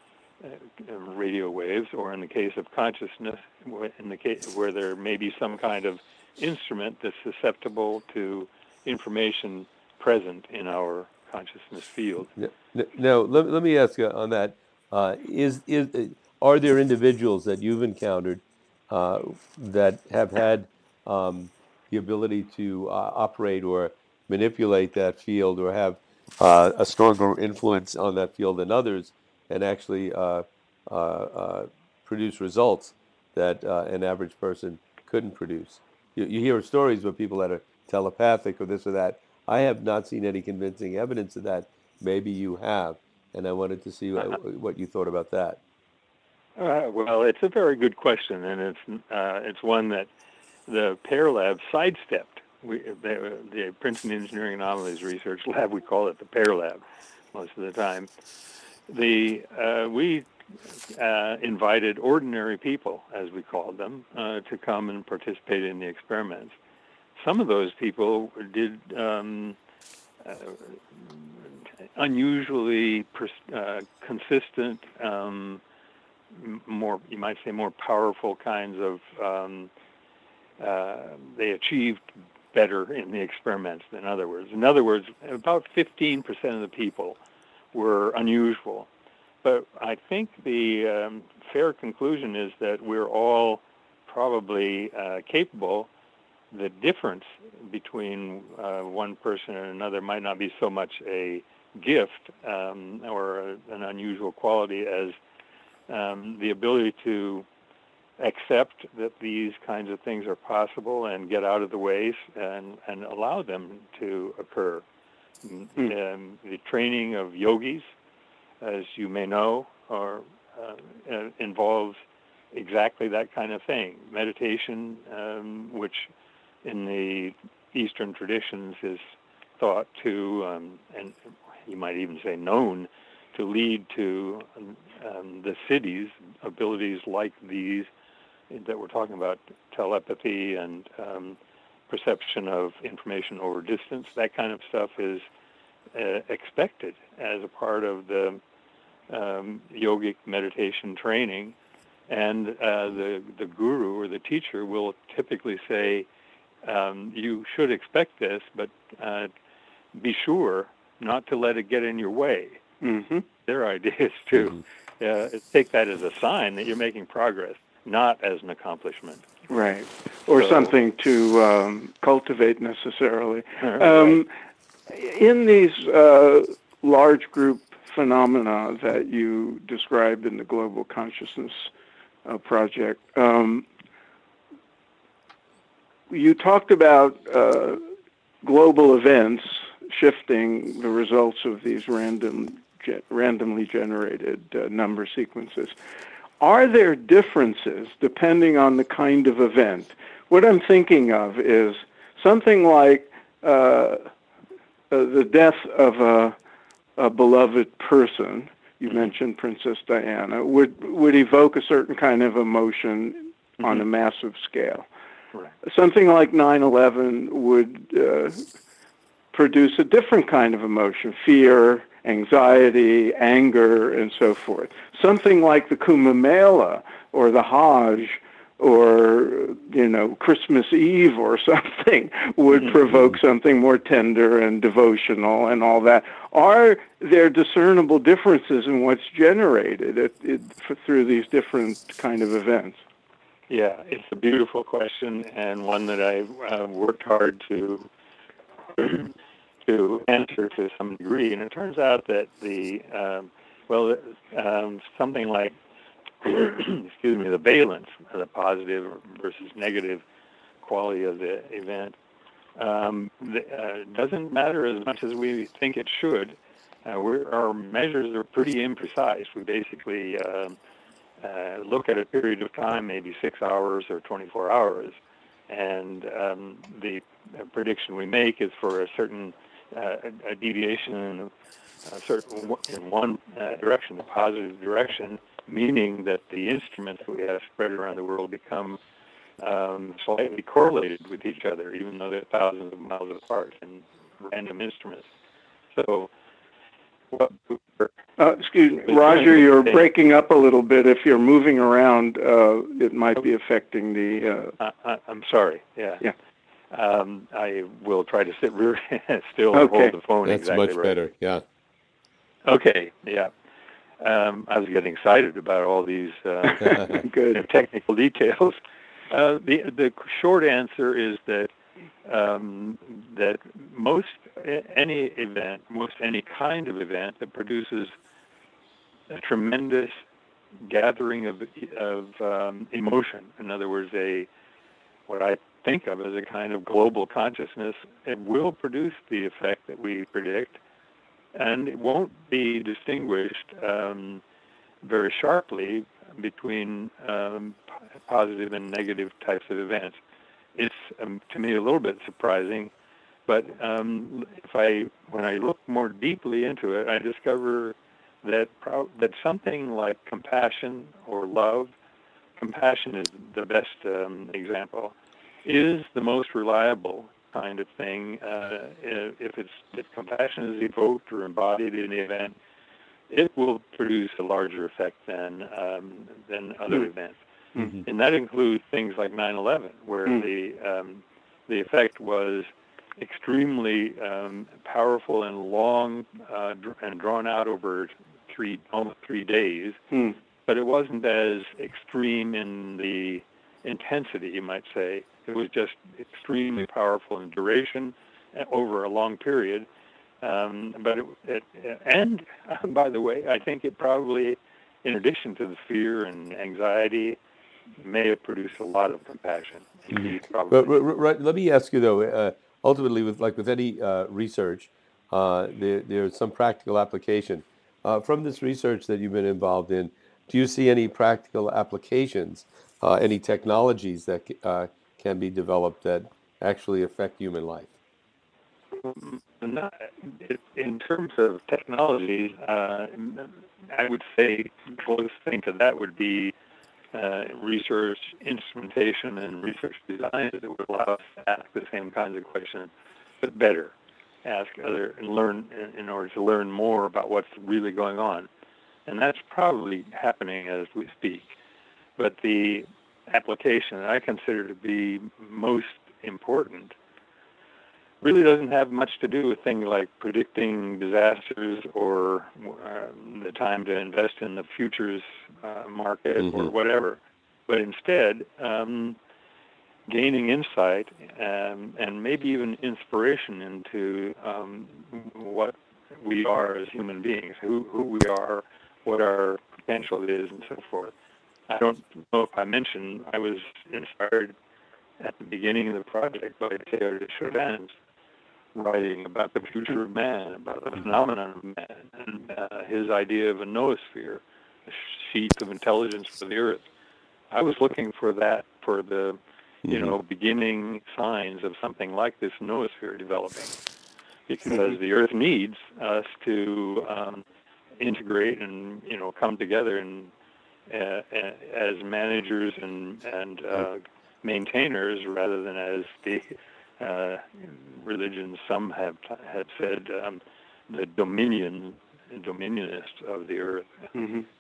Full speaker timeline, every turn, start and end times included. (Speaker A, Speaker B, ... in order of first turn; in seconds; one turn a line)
Speaker A: 0.4-12.3
Speaker B: 12.4-45.6
Speaker A: 46.6-50.1
Speaker A: 50.7-56.8
Speaker A: 57.3-58.1
Speaker A: 58.9-60.3
Speaker A: 60.9-66.5
Speaker A: 67.2-69.6
Speaker A: 70.2-71.5
Speaker A: 72.0-75.6
Speaker A: 76.3-79.7
Speaker A: 80.6-87.2
Speaker A: 87.7-88.9
Speaker A: 89.4-95.9
Speaker A: 96.5-105.2
Speaker A: 105.9-107.5
Speaker A: 108.2-114.8
Speaker A: 115.4-117.9
Speaker A: 118.6-122.0
Speaker A: 122.5-126.1
Speaker A: 126.6-129.0
Speaker A: 129.6-137.9
Speaker A: 138.5-141.4
Speaker A: 141.9-145.3
Speaker A: 145.9-148.4
Speaker A: 149.1-151.6
Speaker A: 152.1-156.1
Speaker A: 156.6-159.3
Speaker A: 159.9-162.6
Speaker C: 162.8-163.2
Speaker A: 163.4-169.3
Speaker C: 169.5-174.3
Speaker A: 170.3-170.7
Speaker A: 173.6-174.2
Speaker C: 174.9-181.7
Speaker C: 182.2-183.7
Speaker C: 186.1-187.8
Speaker C: 188.4-195.7
Speaker C: 196.4-204.1
Speaker C: 204.9-206.4
Speaker C: 207.0-214.9
Speaker C: 215.6-218.4
Speaker C: 219.3-242.8
Speaker A: 243.5-247.9
Speaker A: 248.7-255.6
Speaker A: 256.2-260.0
Speaker A: 260.6-262.0
Speaker A: 262.6-270.6
Speaker A: 271.2-275.0
Speaker A: 275.5-281.3
Speaker A: 281.9-288.8
Speaker A: 289.4-295.1
Speaker A: 295.7-296.1
Speaker A: 297.1-297.9
Speaker C: 298.2-304.5
Speaker A: 298.9-299.8
Speaker A: 304.6-306.1
Speaker A: 306.7-310.9
Speaker C: 309.5-309.9
Speaker B: 310.3-311.4
Speaker A: 312.4-313.3
Speaker A: 314.0-318.6
Speaker C: 316.4-317.4
Speaker A: 319.1-321.5
Speaker A: 322.1-327.9
Speaker A: 329.1-330.0
Speaker A: 330.6-334.3
Speaker A: 335.1-340.6
Speaker A: 341.3-344.2
Speaker A: 344.8-350.0
Speaker A: 350.6-352.7
Speaker A: 353.3-361.7
Speaker A: 362.4-372.3
Speaker A: 373.1-377.2
Speaker A: 377.8-389.8
Speaker A: 390.5-399.7
Speaker A: 400.2-407.2
Speaker A: 407.8-410.7
Speaker B: 409.9-427.7
Speaker A: 428.8-436.3
Speaker A: 436.9-442.7
Speaker A: 443.2-448.3
Speaker A: 448.9-451.3
Speaker A: 452.0-456.8
Speaker A: 458.0-469.0
Speaker A: 469.9-480.9
Speaker A: 481.5-484.3
Speaker A: 485.0-487.8
Speaker A: 488.6-496.6
Speaker A: 497.3-503.6
Speaker B: 499.7-499.9
Speaker A: 504.3-507.2
Speaker A: 507.8-510.1
Speaker A: 510.7-516.3
Speaker A: 516.8-523.9
Speaker C: 524.0-524.3